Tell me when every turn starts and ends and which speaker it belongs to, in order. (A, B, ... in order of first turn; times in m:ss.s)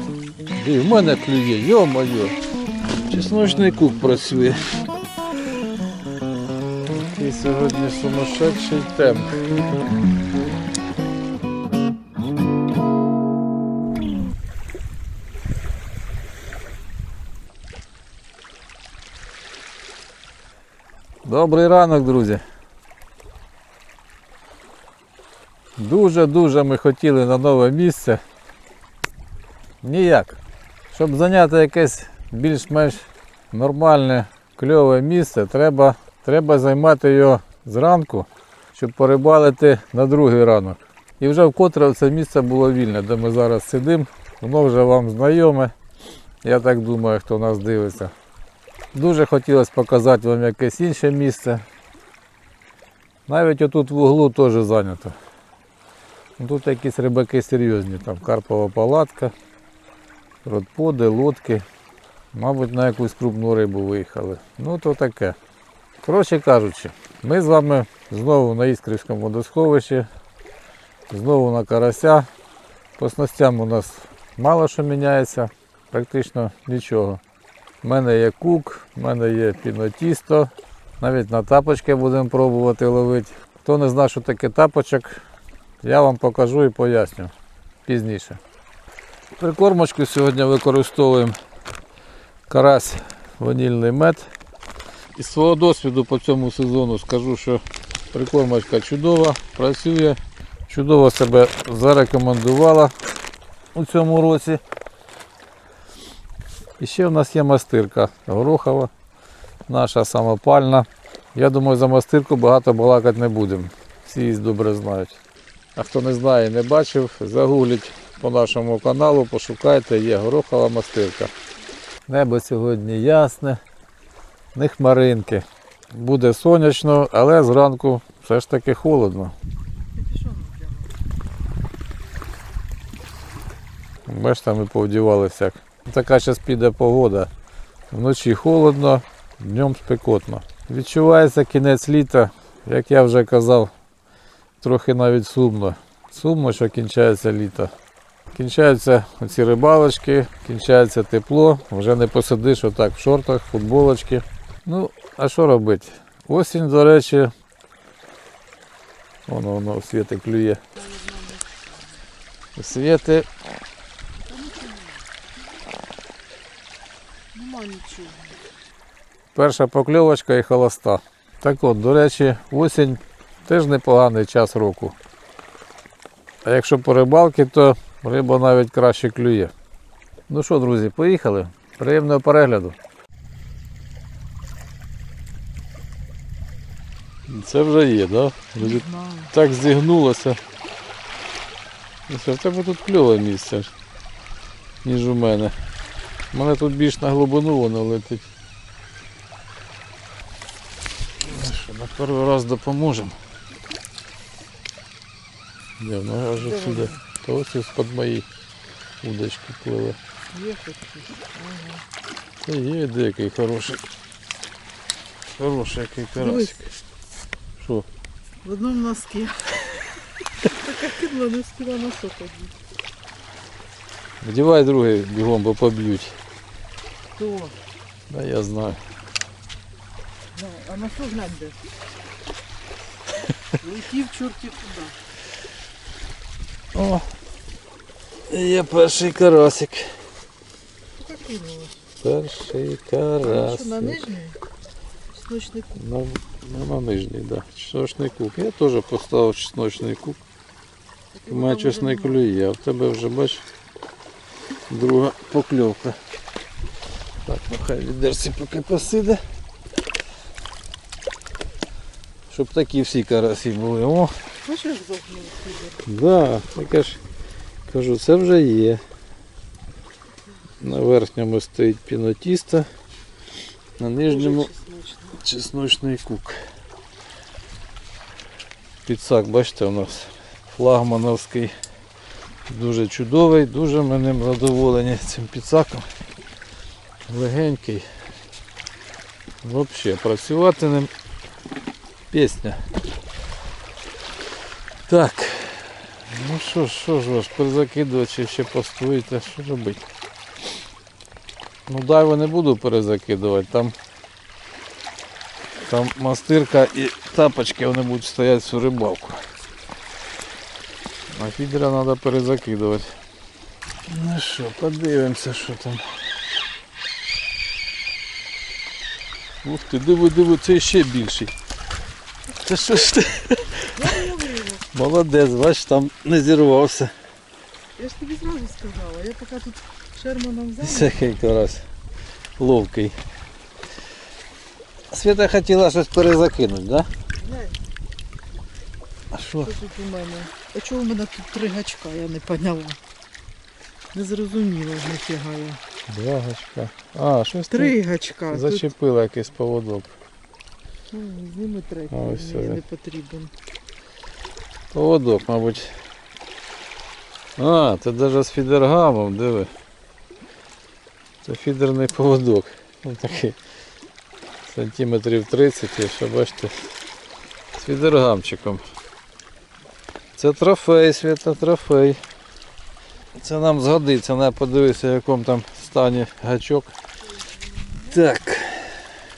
0:00.5-0:02.4 A
0:03.1-0:04.7 A
0:07.0-0:09.4 A
0:21.2-0:22.4 A
0:25.8-0:28.2 A
0:29.8-0:30.4 A
0:30.9-0:45.7 A
0:46.4-0:48.1 A
0:48.9-0:51.6 A
0:53.3-0:55.2 A
0:56.4-0:59.3 A
1:00.4-1:01.6 A
1:02.3-1:05.4 A
1:06.0-1:10.1 A
1:11.1-1:12.3 A
1:13.0-1:17.2 A
1:17.8-1:25.2 A
1:25.8-1:27.3 A
1:27.9-1:28.4 A
1:29.4-1:31.4 A
1:32.5-1:34.3 A
1:35.2-1:37.6 A
1:38.1-1:40.2 A
1:40.7-1:42.9 A
1:43.7-1:44.6 A
1:46.8-1:48.9 A
1:49.7-1:55.2 A
1:55.8-2:01.3 A
2:02.1-2:03.6 A
2:04.6-2:09.4 A
2:09.9-2:11.0 B
2:14.1-2:17.3 A
2:17.9-2:23.7 A
2:24.6-2:27.7 A
2:28.3-2:37.3 A
2:39.3-2:40.6 A
2:40.7-2:42.0 B
2:42.6-2:43.3 A
2:44.2-2:45.2 B
2:47.3-2:48.4 B
2:49.4-2:55.0 A
2:56.4-2:59.5 A
3:00.3-3:02.8 A
3:07.3-3:10.4 A
3:08.6-3:09.3 B
3:12.1-3:13.7 A
3:14.8-3:15.6 A
3:16.3-3:18.2 A
3:21.2-3:23.2 A
3:25.8-3:28.3 A
3:26.4-3:27.0 B
3:29.0-3:30.0 A
3:30.3-3:31.8 B
3:32.4-3:33.8 A
3:35.4-3:36.7 A
3:36.2-3:36.6 B
3:37.6-3:37.9 A
3:38.4-3:42.6 B
3:44.2-3:46.2 A
3:47.2-3:47.6 B
3:48.1-3:48.8 A
3:50.3-3:51.6 B
3:53.6-3:55.0 B
3:56.7-3:57.1 A
3:58.3-3:59.9 A
4:01.0-4:01.8 B
4:02.0-4:04.0 A
4:03.2-4:04.4 B
4:05.1-4:05.8 B
4:05.8-4:10.2 A
4:11.1-4:12.3 B
4:11.3-4:13.4 A
4:14.7-4:16.0 A
4:17.2-4:19.2 A
4:22.3-4:24.1 A
4:24.4-4:25.8 B
4:25.8-4:27.0 A
4:27.7-4:28.8 A
4:30.6-4:32.7 A
4:33.8-4:34.5 A
4:34.1-4:35.2 B
4:35.2-4:36.4 A
4:38.8-4:41.5 A
4:42.5-4:45.9 A
4:47.1-4:47.9 A
4:49.4-4:50.9 A
4:52.1-4:52.6 A
4:54.9-4:59.8 A
5:01.7-5:03.8 A
5:05.7-5:09.2 A
5:11.1-5:12.9 A
5:13.9-5:15.8 A
5:19.4-5:21.3 A
5:22.4-5:23.8 A
5:23.7-5:24.6 B
5:24.7-5:26.9 A
5:27.8-5:31.0 B
5:30.6-5:31.6 A
5:32.4-5:33.0 A
5:34.9-5:36.9 A
5:37.2-5:37.6 B
5:39.1-5:39.5 A
5:39.4-5:42.8 B
5:43.9-5:45.6 B
5:45.9-5:47.8 A
5:47.5-5:48.7 B
5:48.3-5:49.9 A
5:50.9-5:53.3 B
5:51.9-5:52.6 A
5:54.7-5:55.7 A
5:57.4-5:59.5 A
6:01.2-6:03.4 A
6:04.5-6:06.6 A
6:07.6-6:08.6 A
6:10.2-6:12.0 A
6:13.2-6:16.7 A
6:17.0-6:18.1 B
6:17.9-6:18.7 A